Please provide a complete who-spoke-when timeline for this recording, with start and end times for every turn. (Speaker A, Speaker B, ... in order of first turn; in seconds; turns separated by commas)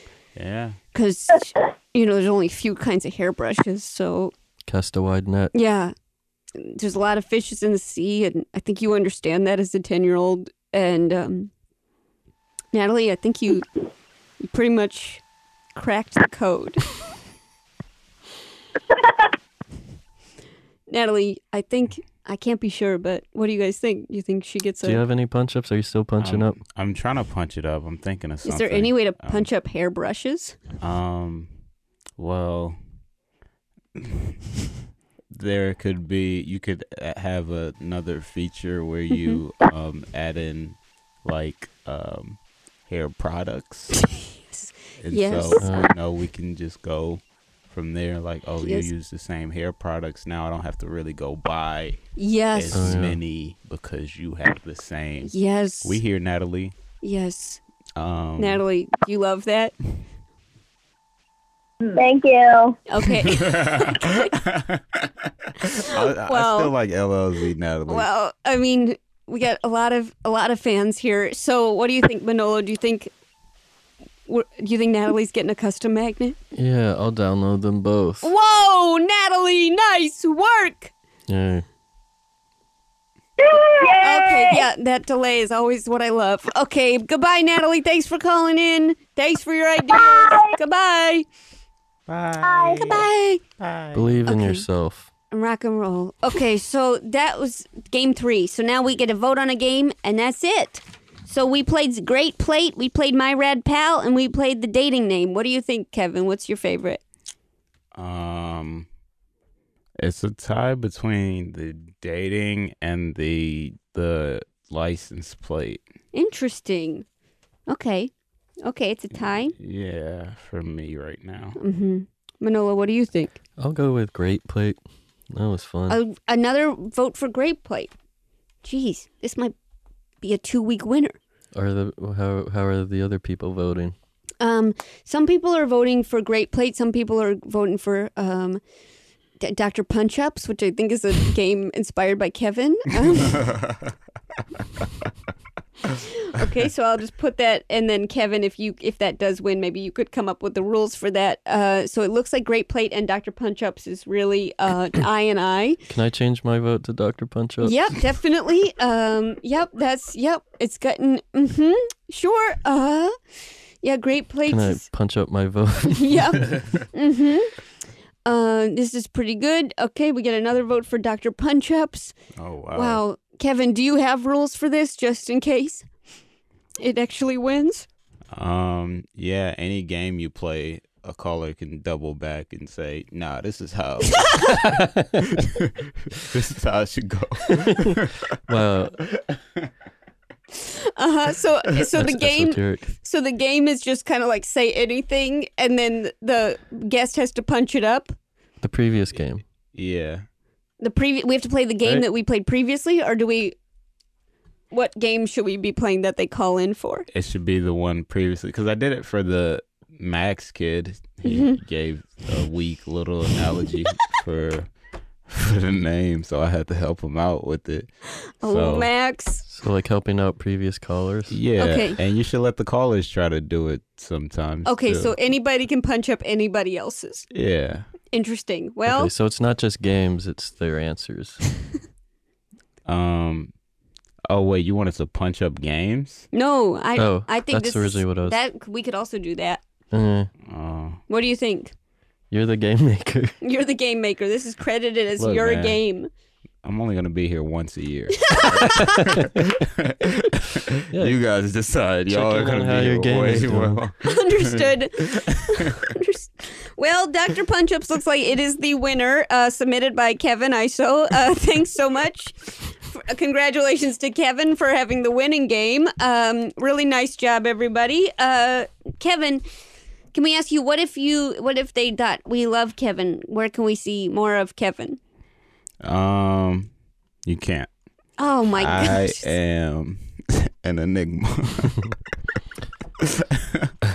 Speaker A: 0.3-0.8, Speaker B: 0.9-4.3, Speaker C: 4.7-5.5, Speaker B: 5.5-5.9, Speaker B: 6.5-11.5, Speaker B: 12.7-13.7, Speaker B: 14.4-15.2, Speaker B: 15.7-16.8, Speaker B: 20.9-25.0, Speaker C: 24.8-26.6, Speaker A: 26.2-29.5, Speaker B: 28.4-30.6, Speaker A: 30.8-31.5, Speaker A: 32.1-32.8, Speaker A: 34.0-34.3, Speaker A: 35.3-43.9, Speaker B: 39.1-39.4, Speaker B: 44.5-45.6, Speaker A: 45.0-56.7, Speaker C: 45.6-45.9, Speaker B: 48.6-48.9, Speaker B: 52.1-52.9, Speaker C: 52.7-53.2, Speaker B: 55.2-56.0, Speaker B: 57.0-57.6, Speaker A: 58.0-58.6, Speaker B: 58.4-59.7, Speaker D: 61.9-62.8, Speaker B: 62.9-64.3, Speaker A: 63.3-68.1, Speaker B: 65.8-66.7, Speaker B: 67.9-73.1, Speaker B: 74.3-76.4, Speaker C: 76.5-78.3, Speaker B: 78.2-80.9, Speaker C: 81.3-81.7, Speaker D: 83.4-84.7, Speaker B: 83.9-91.2, Speaker D: 89.9-90.5, Speaker A: 92.1-93.1, Speaker D: 92.4-93.0, Speaker B: 92.8-93.4, Speaker A: 93.6-94.1, Speaker C: 93.9-95.1, Speaker B: 94.2-94.7, Speaker B: 95.3-107.0, Speaker A: 107.9-108.9, Speaker A: 110.0-115.8, Speaker B: 116.1-117.0, Speaker B: 117.7-118.1, Speaker B: 118.6-119.5, Speaker A: 119.5-121.6, Speaker B: 121.6-123.4, Speaker C: 123.6-124.8, Speaker C: 125.3-126.0, Speaker B: 125.9-127.9, Speaker B: 128.6-129.5, Speaker B: 130.2-131.2, Speaker C: 131.5-133.9, Speaker B: 134.4-138.6, Speaker B: 139.4-143.4, Speaker A: 143.3-143.9, Speaker B: 146.0-155.8, Speaker C: 155.9-158.0, Speaker B: 157.6-163.2, Speaker B: 163.8-164.8, Speaker C: 164.5-166.6, Speaker B: 166.0-167.6, Speaker B: 168.2-172.2, Speaker A: 172.3-173.0, Speaker B: 172.7-175.9, Speaker B: 176.8-177.9, Speaker A: 178.3-184.6, Speaker A: 185.2-188.3, Speaker C: 188.5-189.0, Speaker B: 190.5-198.2, Speaker C: 191.9-192.9, Speaker C: 198.6-199.4, Speaker A: 199.7-200.2, Speaker B: 200.8-203.5, Speaker B: 204.7-207.1, Speaker A: 207.1-214.7, Speaker B: 211.2-211.6, Speaker A: 215.3-217.9, Speaker B: 218.4-219.4, Speaker A: 218.4-218.9, Speaker C: 219.4-221.3, Speaker A: 221.3-225.2, Speaker B: 221.6-222.0, Speaker B: 224.6-227.2, Speaker A: 227.3-227.9, Speaker B: 228.1-229.1, Speaker C: 228.8-231.5, Speaker A: 232.8-233.5, Speaker A: 234.3-236.2, Speaker B: 236.3-239.6, Speaker C: 237.0-238.4, Speaker C: 239.9-240.3, Speaker A: 240.4-241.0, Speaker B: 241.1-241.7, Speaker C: 242.3-243.4, Speaker B: 243.4-246.1, Speaker A: 245.2-245.8, Speaker A: 246.6-255.7, Speaker B: 248.3-248.9, Speaker C: 250.9-251.2, Speaker C: 252.1-253.8, Speaker B: 254.0-269.4, Speaker B: 270.1-275.0, Speaker A: 275.8-276.7, Speaker A: 277.2-277.7, Speaker B: 278.2-279.3, Speaker A: 278.6-281.9, Speaker A: 283.0-283.7